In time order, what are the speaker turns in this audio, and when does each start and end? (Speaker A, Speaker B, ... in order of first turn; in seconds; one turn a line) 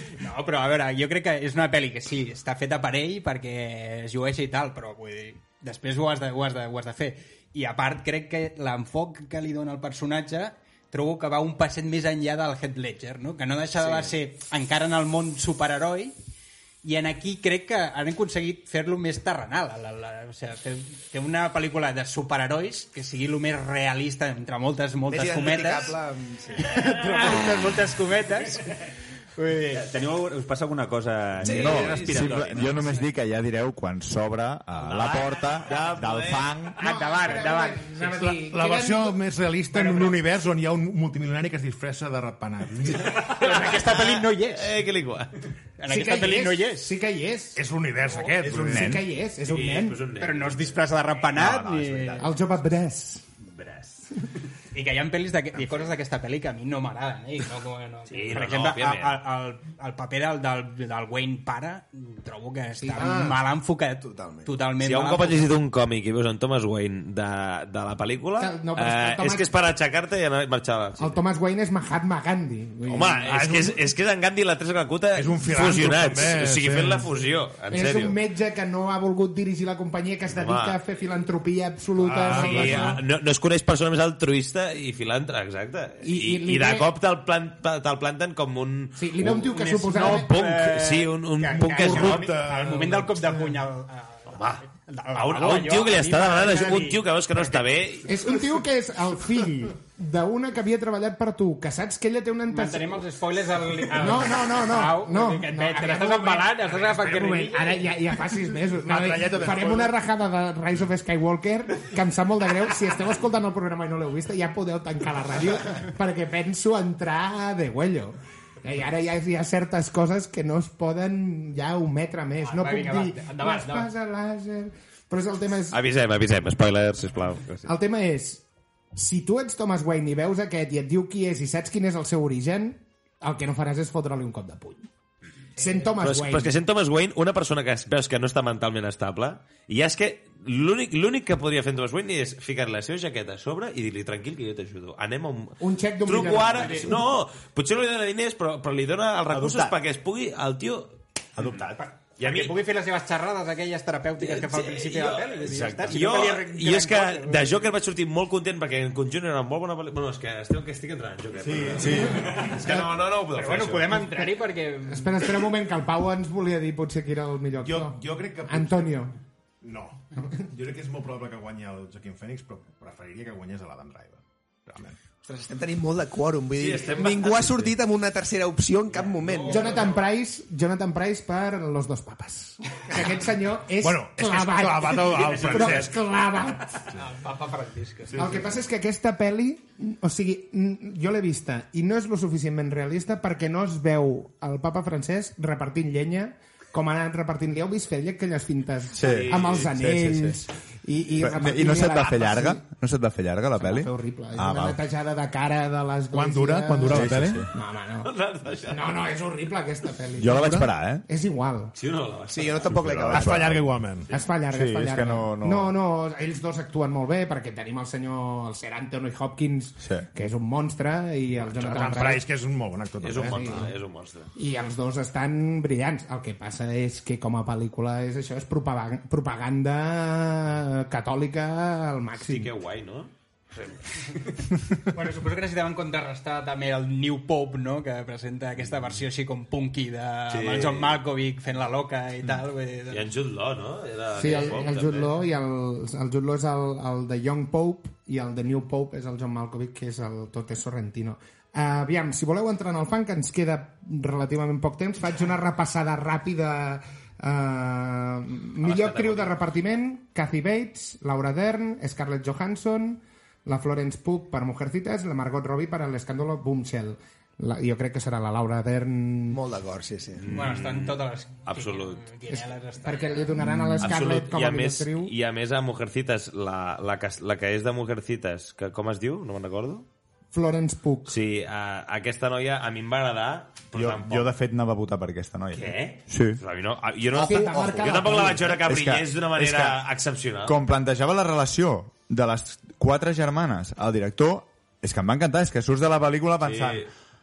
Speaker A: 0.2-16.1
Speaker B: 13.8-14.1
Speaker A: 16.8-26.0
Speaker B: 25.1-26.7
Speaker A: 26.6-28.7
Speaker A: 29.4-29.9
Speaker C: 29.7-33.0
Speaker D: 31.4-36.8
Speaker E: 31.4-32.7
Speaker E: 34.8-36.7
Speaker A: 36.8-38.4
Speaker F: 36.8-39.2
Speaker G: 38.4-43.1
Speaker A: 39.8-40.1
Speaker A: 43.0-44.7
Speaker E: 43.1-45.3
Speaker A: 45.8-46.9
Speaker F: 45.9-47.6
Speaker G: 47.6-49.0
Speaker D: 48.4-49.0
Speaker F: 48.5-50.0
Speaker E: 49.4-50.8
Speaker A: 50.2-52.3
Speaker E: 51.3-52.3
Speaker F: 52.2-53.2
Speaker C: 53.5-54.0
Speaker A: 54.7-65.5
Speaker E: 58.1-59.2
Speaker F: 62.8-63.4
Speaker B: 63.0-63.4
Speaker B: 64.0-64.5
Speaker E: 64.8-71.2
Speaker F: 68.4-69.5
Speaker F: 71.0-73.3
Speaker E: 72.9-78.2
Speaker G: 73.2-73.8
Speaker G: 75.1-77.1
Speaker F: 77.7-83.0
Speaker E: 80.3-80.8
Speaker G: 82.0-83.0
Speaker E: 82.3-92.3
Speaker F: 86.0-86.9
Speaker F: 89.0-90.3
Speaker A: 89.4-97.6
Speaker G: 91.6-93.6
Speaker E: 94.3-94.6
Speaker E: 95.2-98.3
Speaker F: 98.0-103.0
Speaker A: 102.5-107.9
Speaker F: 104.0-125.8
Speaker G: 108.6-110.0
Speaker A: 122.4-123.9
Speaker E: 125.7-127.7
Speaker F: 127.7-134.9
Speaker F: 135.6-136.6
Speaker A: 135.6-135.9
Speaker E: 136.0-151.0
Speaker F: 145.6-147.0
Speaker A: 146.6-146.9
Speaker D: 149.3-149.8
Speaker D: 151.4-151.8
Speaker A: 151.8-157.7
Speaker E: 152.2-152.6
Speaker E: 154.2-164.0
Speaker D: 161.4-162.3
Speaker A: 163.3-165.4
Speaker F: 163.9-164.3
Speaker F: 164.9-169.1
Speaker G: 167.6-169.0
Speaker G: 169.6-175.0
Speaker B: 175.2-179.7
Speaker E: 176.6-177.7
Speaker E: 178.9-179.9
Speaker A: 179.3-179.9
Speaker F: 179.5-186.9
Speaker G: 183.8-186.0
Speaker A: 186.9-188.5
Speaker F: 188.2-202.6
Speaker D: 198.9-200.4
Speaker E: 199.0-199.7
Speaker D: 201.2-204.8
Speaker F: 203.6-208.1
Speaker G: 206.1-207.5
Speaker D: 206.9-207.5
Speaker E: 208.0-208.9
Speaker F: 208.7-211.7
Speaker D: 210.2-211.1
Speaker E: 211.8-213.2
Speaker B: 212.3-213.6
Speaker D: 212.7-213.6
Speaker G: 213.1-214.1
Speaker F: 214.1-222.2
Speaker D: 214.5-215.7
Speaker D: 219.8-220.1
Speaker G: 221.4-223.7
Speaker E: 223.0-224.3
Speaker F: 223.2-223.7
Speaker F: 224.3-232.5
Speaker E: 232.2-233.8
Speaker A: 234.9-243.1
Speaker E: 240.3-241.0
Speaker E: 242.9-245.1
Speaker F: 244.1-269.4
Speaker E: 258.6-259.4
Speaker B: 269.3-270.3
Speaker E: 270.2-272.1
Speaker A: 270.3-273.3
Speaker F: 272.4-275.1
Speaker D: 273.4-274.0
Speaker E: 273.8-279.9
Speaker F: 280.3-281.2
Speaker E: 281.1-284.3
Speaker D: 283.7-286.4
Speaker E: 285.5-290.6
Speaker F: 287.1-288.6
Speaker D: 288.5-289.8
Speaker D: 290.4-296.9
Speaker E: 296.4-296.9